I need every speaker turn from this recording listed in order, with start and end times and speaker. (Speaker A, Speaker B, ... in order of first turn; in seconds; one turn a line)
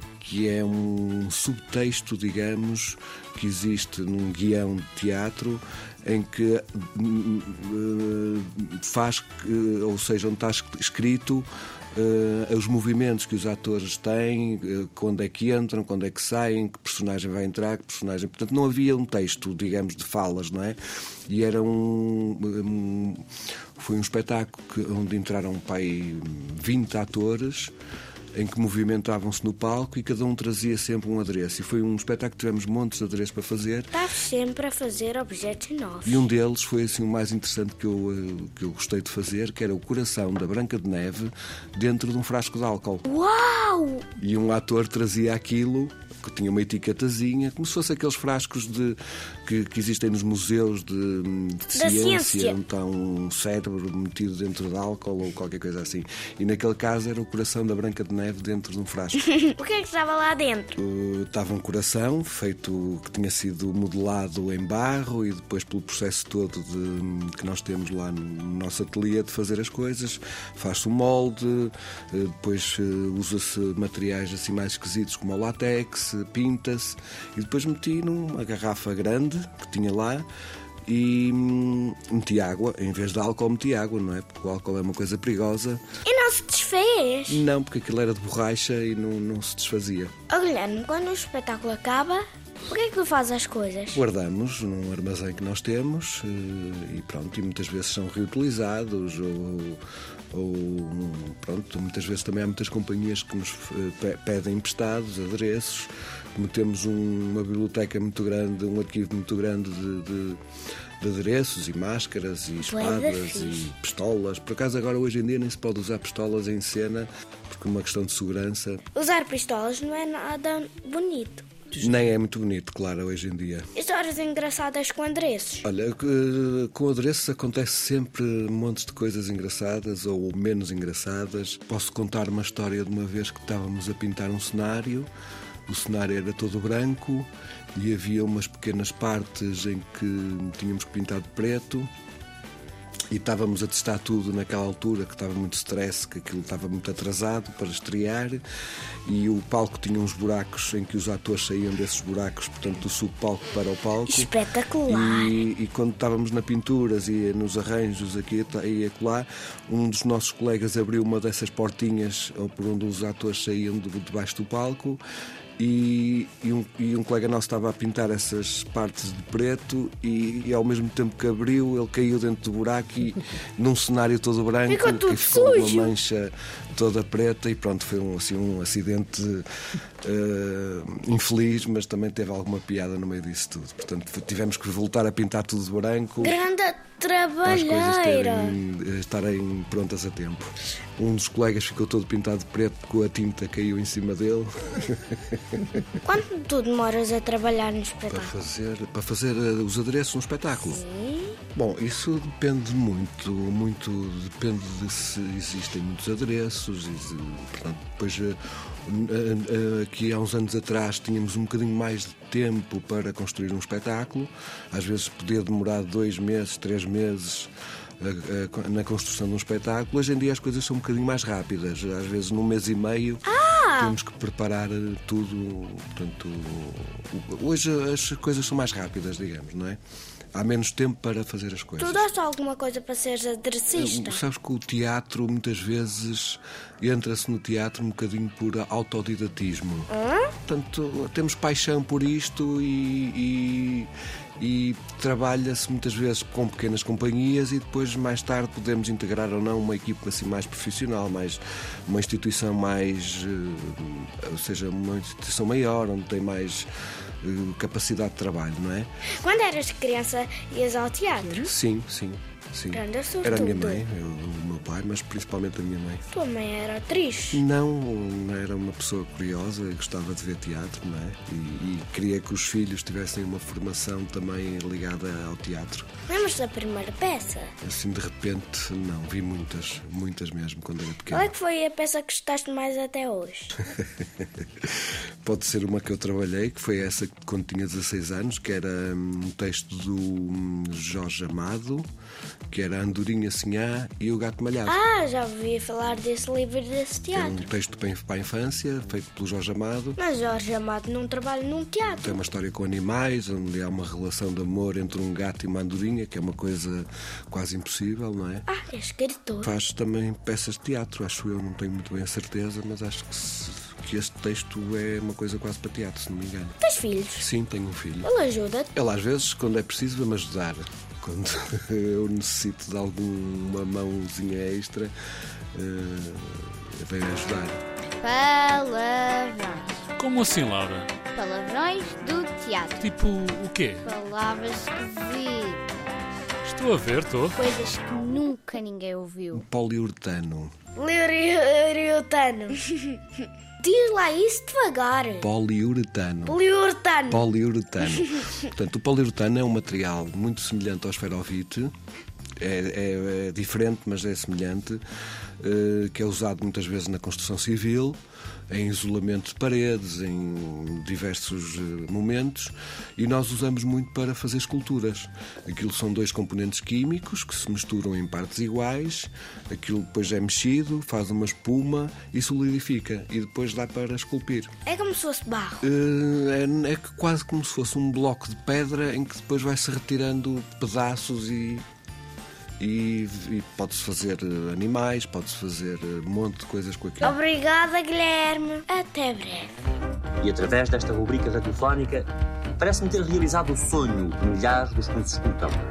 Speaker A: 0.2-23.3
Speaker A: 23.8-27.7
Speaker A: 28.4-34.0
Speaker B: 33.9-36.3
Speaker A: 36.0-43.0
Speaker B: 43.0-44.1
Speaker A: 44.2-59.2
Speaker B: 51.7-52.6
Speaker B: 59.2-60.8
Speaker A: 60.8-80.3
Speaker A: 80.9-85.8
Speaker B: 86.0-87.5
Speaker A: 87.3-90.1
Speaker B: 90.3-94.0
Speaker A: 93.9-110.4
Speaker A: 111.0-118.8
Speaker B: 112.6-113.7
Speaker B: 118.9-121.5
Speaker A: 121.8-123.7
Speaker B: 123.8-125.7
Speaker A: 125.6-135.1
Speaker A: 135.7-141.9
Speaker A: 143.1-148.4
Speaker A: 149.1-154.3
Speaker B: 154.1-155.4
Speaker A: 154.9-165.0
Speaker A: 165.6-179.4
Speaker B: 174.7-175.9
Speaker A: 180.0-186.4
Speaker B: 186.2-188.6
Speaker A: 187.4-195.8
Speaker B: 196.0-198.3
Speaker A: 198.1-200.8
Speaker B: 200.6-201.4
Speaker A: 201.5-229.8
Speaker B: 223.2-224.0
Speaker A: 230.3-232.1
Speaker B: 231.8-234.2
Speaker A: 233.7-239.9
Speaker B: 239.9-240.3
Speaker A: 240.4-256.7
Speaker A: 257.2-258.9
Speaker B: 259.2-261.5
Speaker A: 261.4-266.1
Speaker B: 262.7-263.9
Speaker B: 266.1-267.4
Speaker A: 267.3-275.9
Speaker B: 276.1-277.5
Speaker A: 277.6-281.3
Speaker B: 281.1-283.6
Speaker A: 284.0-284.7
Speaker A: 285.2-291.9
Speaker A: 292.5-294.8
Speaker B: 294.7-297.5
Speaker A: 297.1-300.0
Speaker B: 300.0-302.2
Speaker A: 302.0-308.5
Speaker B: 308.5-309.5
Speaker A: 309.4-316.6
Speaker B: 316.6-317.3
Speaker A: 317.2-318.1
Speaker B: 318.0-318.7
Speaker A: 318.7-324.9
Speaker A: 325.5-327.6
Speaker C: 328.0-329.8
Speaker D: 330.0-330.9
Speaker C: 331.1-332.9
Speaker D: 332.8-333.9
Speaker C: 333.9-335.7
Speaker D: 336.4-337.4
Speaker C: 337.4-339.4
Speaker A: 339.3-340.5
Speaker B: 340.8-343.0
Speaker B: 343.6-345.3
Speaker A: 345.2-346.4
Speaker B: 346.3-347.3
Speaker A: 347.1-351.7
Speaker B: 348.0-348.4
Speaker A: 352.4-354.8
Speaker A: 355.4-358.0
Speaker A: 358.5-374.5
Speaker B: 374.6-375.7
Speaker A: 375.6-381.6
Speaker A: 382.6-387.2
Speaker B: 387.0-389.5
Speaker E: 390.2-392.1
Speaker E: 392.6-395.6